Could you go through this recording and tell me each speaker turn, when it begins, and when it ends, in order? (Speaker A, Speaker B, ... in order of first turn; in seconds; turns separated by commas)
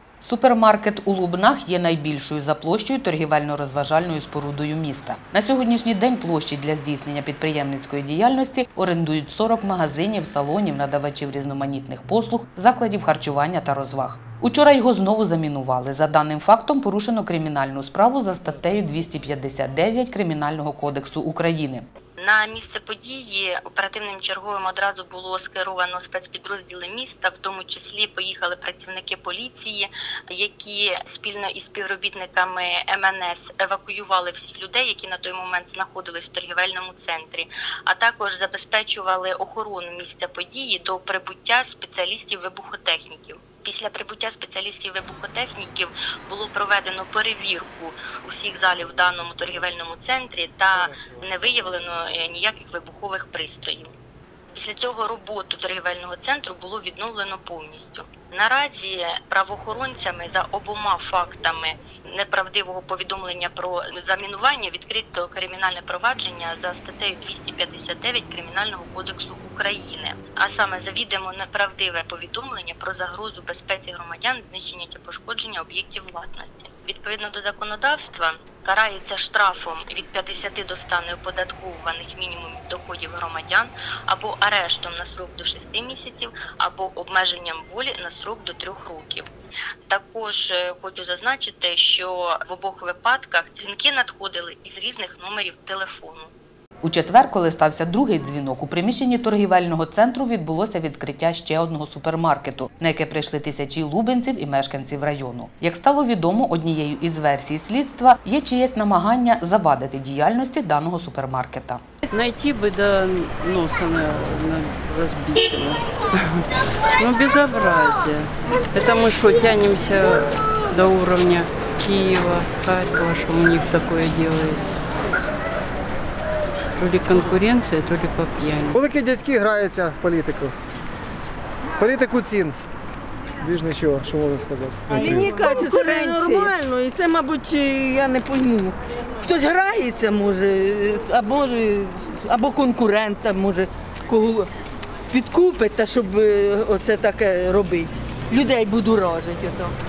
Speaker A: 0.2-21.9, Speaker B: 22.2-53.9, Speaker B: 54.5-89.3, Speaker B: 89.9-96.3, Speaker A: 96.8-111.8, Speaker C: 112.1-124.8, Speaker C: 126.8-128.8, Speaker D: 128.7-130.5, Speaker D: 131.8-132.6, Speaker D: 133.4-135.3, Speaker E: 134.9-144.5, Speaker E: 145.1-149.8